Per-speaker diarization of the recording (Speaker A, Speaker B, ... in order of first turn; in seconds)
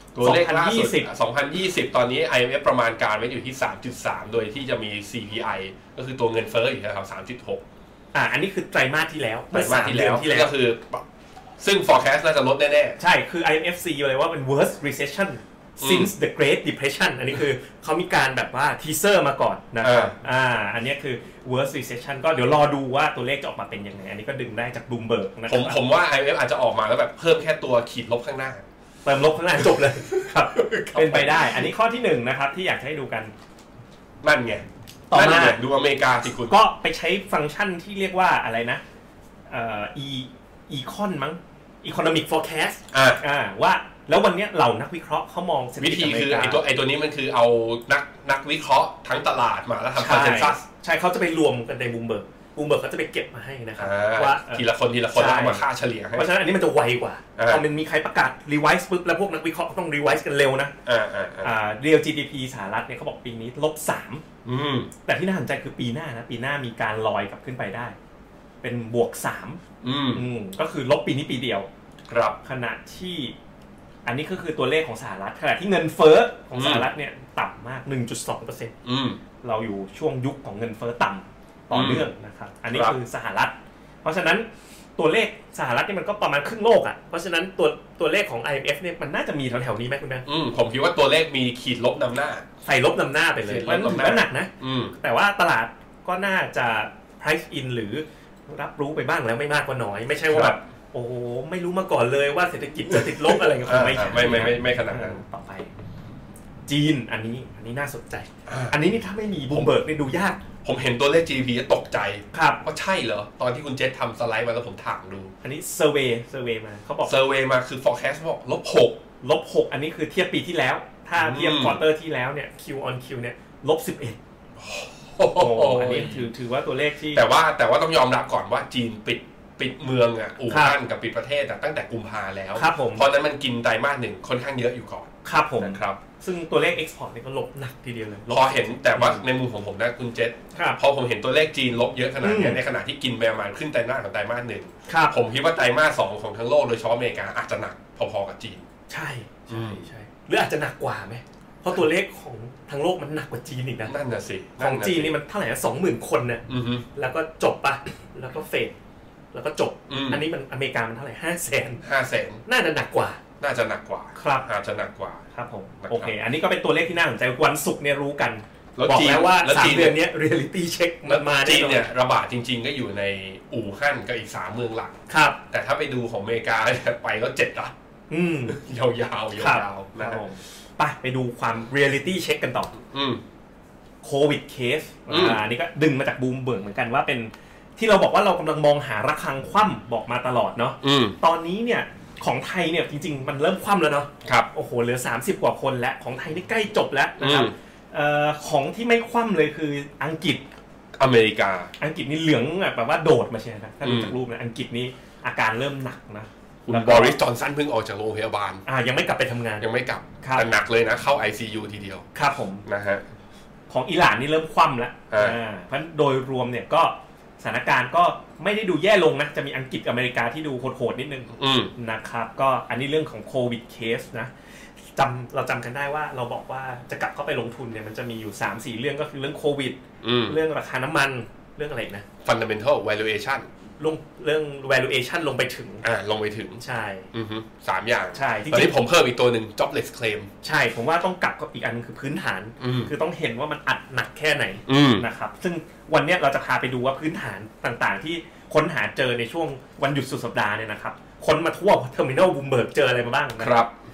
Speaker A: 0.1-7.6, 9.5-11.1, 11.6-13.0, 15.8-16.1, 19.8-20.1, 25.5-28.6, 30.6-31.7, 34.2-36.6, 42.9-43.2, 45.8-50.6, 53.8-56.3, 57.4-57.6, 60.9-61.5, 64.5-64.9, 69.8-70.2, 72.1-72.4, 76.5-76.9, 78.8-79.2, 81.7-82.1, 82.7-83.0, 90.3-92.5, 93.5-94.9, 100.3-100.6, 102.9-105.2, 108.5-108.8, 110.6-115.3, 117.1-119.0, 121.2-121.8, 124.6-126.3, 127.1-136.0, 138.3-148.7, 149.5-149.8, 153.9-155.2, 156.5-156.8, 159.9-160.2, 161.8-162.4, 163.4-165.3, 165.8-166.1, 168.8-170.0, 171.1-175.0, 175.5-177.7, 178.5-180.2, 182.8-183.2, 185.1-185.4, 190.8-191.2, 197.2-197.5, 201.0-201.7, 203.8-204.2, 206.7-208.6, 209.6-212.1, 212.7-213.1, 215.1-215.4, 221.3-221.7, 230.0-230.4, 232.2-233.5, 235.8-236.6, 237.1-240.3, 242.6-242.9, 244.7-245.1, 253.4-253.7
Speaker B: 0.2-1.1, 8.1-10.5, 13.0-25.8, 29.1-33.3, 35.1-35.6, 36.5-38.8, 39.5-46.6, 50.0-55.6, 56.1-60.7, 61.4-64.2, 65.0-68.0, 68.6-69.6, 70.1-71.7, 72.4-73.4, 74.1-78.8, 79.4-90.2, 92.7-105.7, 106.7-110.4, 112.3-112.6, 115.4-117.2, 119.2-124.2, 125.4-127.3, 130.5-130.8, 132.6-133.1, 135.2-139.2, 140.6-140.8, 142.2-142.6, 144.9-145.2, 148.9-153.9, 154.6-158.8, 159.3-161.8, 162.5-163.2, 164.2-164.5, 165.3-171.9, 175.1-175.4, 178.1-178.6, 179.4-182.8, 184.0-200.4, 201.8-207.2, 208.7-209.7, 210.2-210.5, 212.1-212.7, 213.7-224.3, 225.0-232.1, 233.8-235.8, 236.6-237.1, 238.1-238.8, 240.4-253.6